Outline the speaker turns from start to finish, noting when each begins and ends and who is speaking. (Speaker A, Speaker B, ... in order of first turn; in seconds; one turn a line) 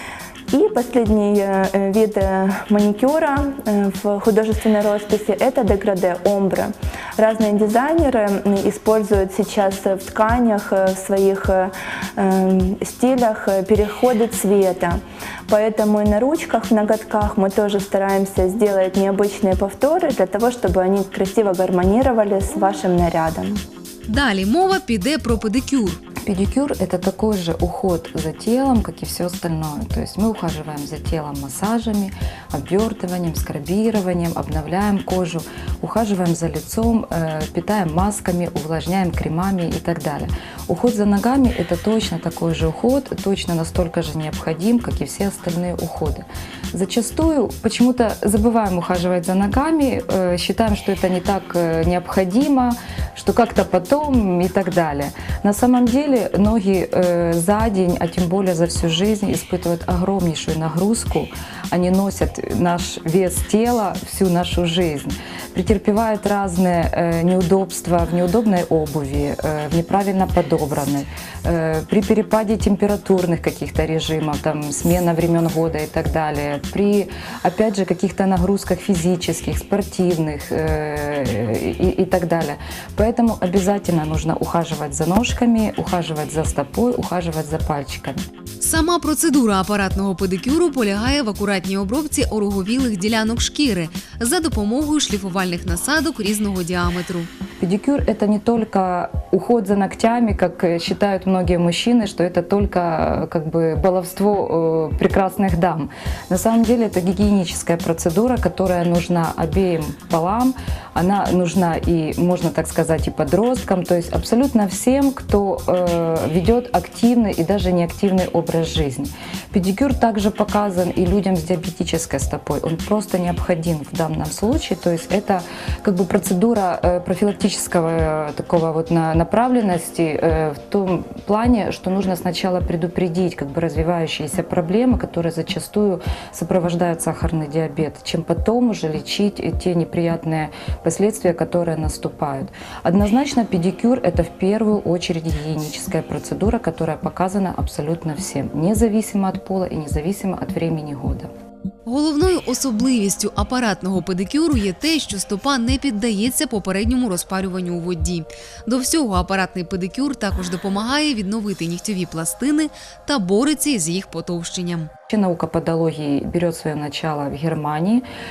Speaker A: 0.5-23.6
Speaker B: 24.1-26.0
Speaker C: 26.2-88.2
Speaker B: 88.6-97.3
Speaker C: 97.6-151.3
Speaker B: 151.9-164.9
Speaker C: 165.1-168.0